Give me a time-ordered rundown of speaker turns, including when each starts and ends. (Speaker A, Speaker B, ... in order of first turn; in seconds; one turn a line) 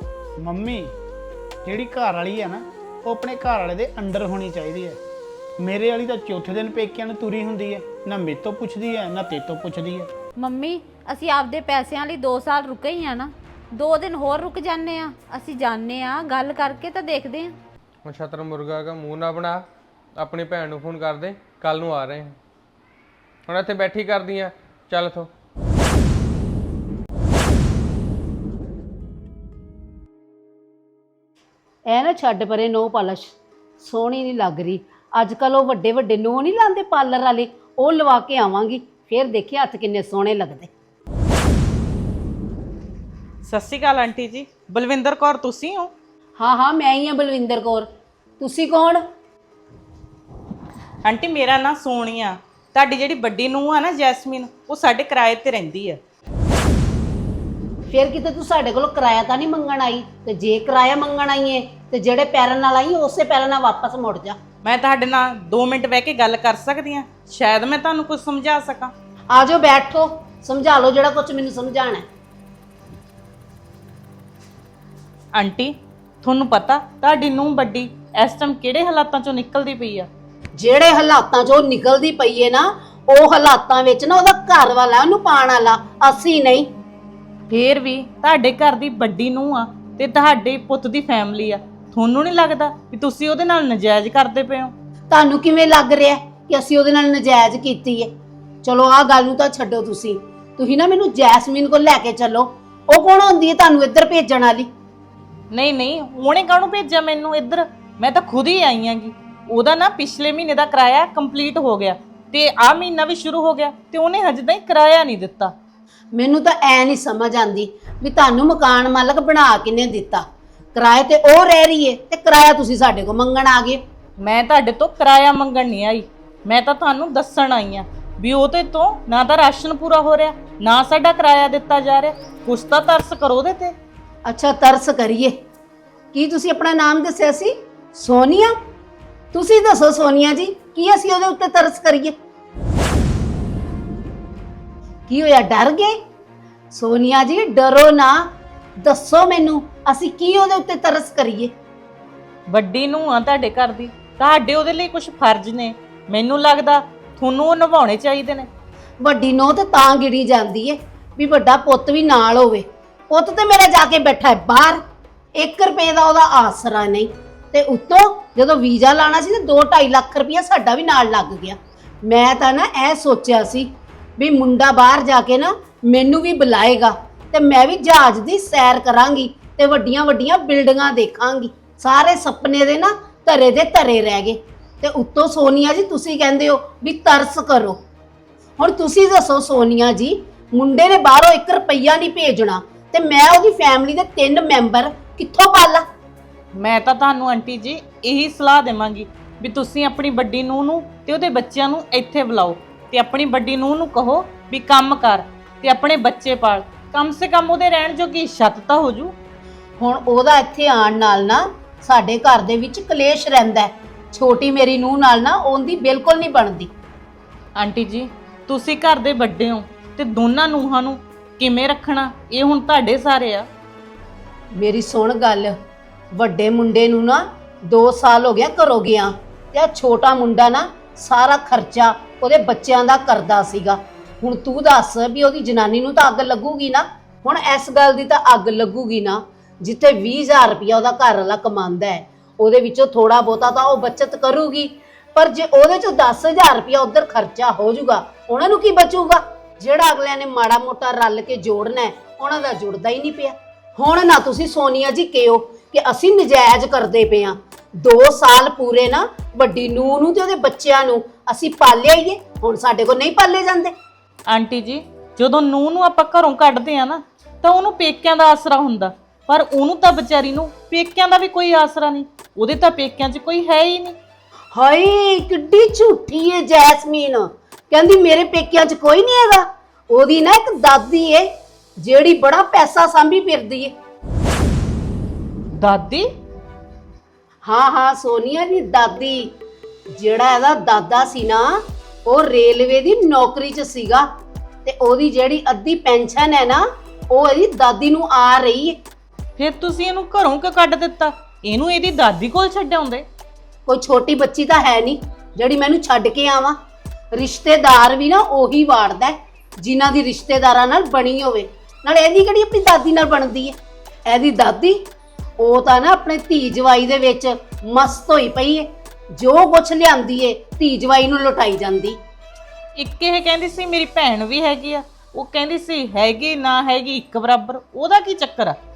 Speaker A: 0.4-0.9
Speaker A: 1.6-5.0
Speaker A: 5.6-10.1
Speaker B: 10.4-17.5
Speaker C: 18.0-19.6
Speaker C: 20.2-22.4
Speaker C: 23.5-25.3
Speaker D: 31.9-40.7
Speaker E: 43.4-45.9
Speaker D: 46.4-47.9
Speaker D: 48.4-49.0
Speaker E: 51.0-56.0
Speaker D: 57.9-64.4
Speaker E: 64.6-68.9
Speaker D: 69.3-72.1
Speaker E: 75.3-80.1
Speaker D: 80.5-86.7
Speaker E: 87.5-94.7
Speaker D: 95.1-98.1
Speaker D: 98.6-104.7
Speaker E: 105.5-115.5
Speaker D: 116.1-123.8
Speaker E: 124.2-133.7
Speaker D: 134.2-135.3
Speaker D: 136.1-138.6
Speaker D: 139.3-142.1
Speaker D: 145.1-146.0
Speaker D: 146.7-148.3
Speaker D: 148.8-151.5
Speaker E: 152.5-158.5
Speaker D: 159.0-164.8
Speaker D: 165.3-187.8
Speaker D: 188.6-195.8
Speaker E: 196.5-209.1
Speaker D: 209.8-216.7
Speaker E: 217.6-223.5
Speaker D: 224.5-225.6
Speaker D: 226.1-263.7
Speaker E: 264.3-274.0
Speaker D: 274.5-283.7
Speaker E: 285.5-286.1
Speaker D: 287.4-289.3
Speaker D: 289.9-294.1
Speaker D: 294.6-298.8
Speaker E: 299.4-303.1
Speaker D: 303.7-306.6
Speaker D: 307.1-314.8
Speaker D: 315.4-322.0
Speaker E: 322.8-328.6